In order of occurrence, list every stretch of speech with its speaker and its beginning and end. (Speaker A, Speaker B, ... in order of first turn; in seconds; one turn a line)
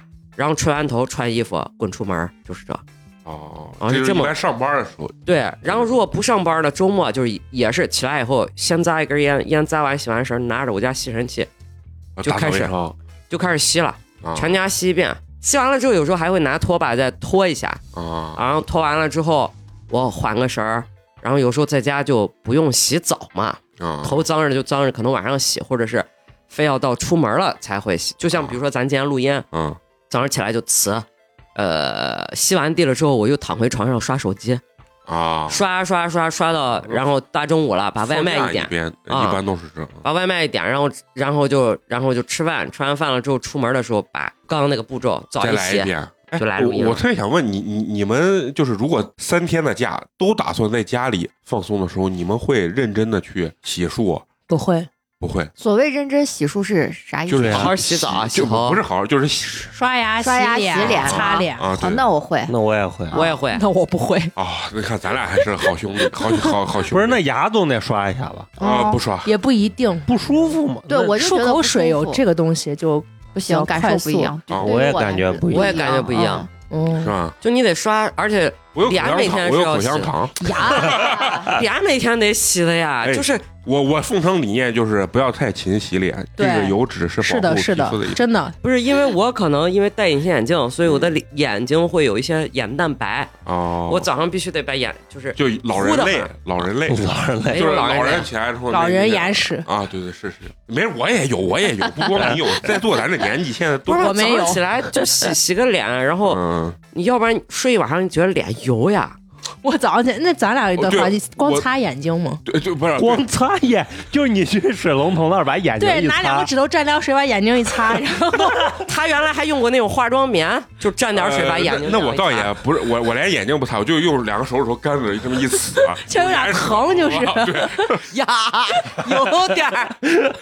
Speaker A: 0.4-2.8
Speaker B: 3.3-6.0
Speaker A: 3.8-4.3
Speaker A: 5.3-11.5
Speaker B: 12.2-12.8
Speaker A: 12.2-17.8
Speaker B: 14.2-14.5
Speaker B: 17.9-18.4
Speaker A: 18.4-29.4
Speaker B: 23.8-24.2
Speaker B: 29.5-29.8
Speaker A: 30.1-34.6
Speaker B: 35.1-35.6
Speaker A: 35.5-39.4
Speaker B: 38.0-40.0
Speaker A: 40.0-47.0
Speaker B: 45.4-54.3
Speaker C: 54.5-54.9
Speaker B: 55.2-55.5
Speaker D: 55.6-57.7
Speaker B: 57.3-59.7
Speaker E: 57.4-57.7
Speaker A: 57.5-58.8
Speaker C: 59.6-61.7
Speaker D: 60.2-62.5
Speaker B: 60.8-62.0
Speaker E: 62.5-63.2
Speaker D: 63.1-63.4
Speaker A: 63.1-63.6
Speaker C: 63.5-64.3
Speaker B: 64.4-67.2
Speaker C: 66.1-66.5
Speaker E: 66.9-68.5
Speaker D: 68.6-69.0
Speaker B: 68.6-69.3
Speaker C: 69.2-70.2
Speaker E: 70.1-71.1
Speaker D: 70.9-72.2
Speaker C: 71.0-74.3
Speaker D: 73.3-76.5
Speaker B: 74.5-74.8
Speaker E: 74.6-75.8
Speaker A: 75.5-76.5
Speaker C: 76.6-77.1
Speaker B: 77.0-77.4
Speaker A: 77.4-83.5
Speaker B: 78.7-81.5
Speaker C: 80.4-81.0
Speaker D: 80.9-81.5
Speaker B: 83.0-88.2
Speaker C: 86.4-88.6
Speaker A: 88.6-93.3
Speaker B: 93.5-94.1
Speaker A: 93.9-96.3
Speaker B: 95.4-104.2
Speaker E: 96.9-97.7
Speaker A: 97.5-98.3
Speaker C: 98.7-99.7
Speaker A: 103.9-106.4
Speaker C: 103.9-104.7
Speaker B: 106.3-106.8
Speaker A: 106.9-109.2
Speaker C: 109.6-112.4
Speaker B: 110.8-111.7
Speaker B: 112.5-113.2
Speaker E: 113.0-116.5
Speaker C: 115.8-118.8
Speaker A: 118.4-122.5
Speaker B: 121.1-128.1
Speaker C: 126.0-127.9
Speaker A: 128.0-130.0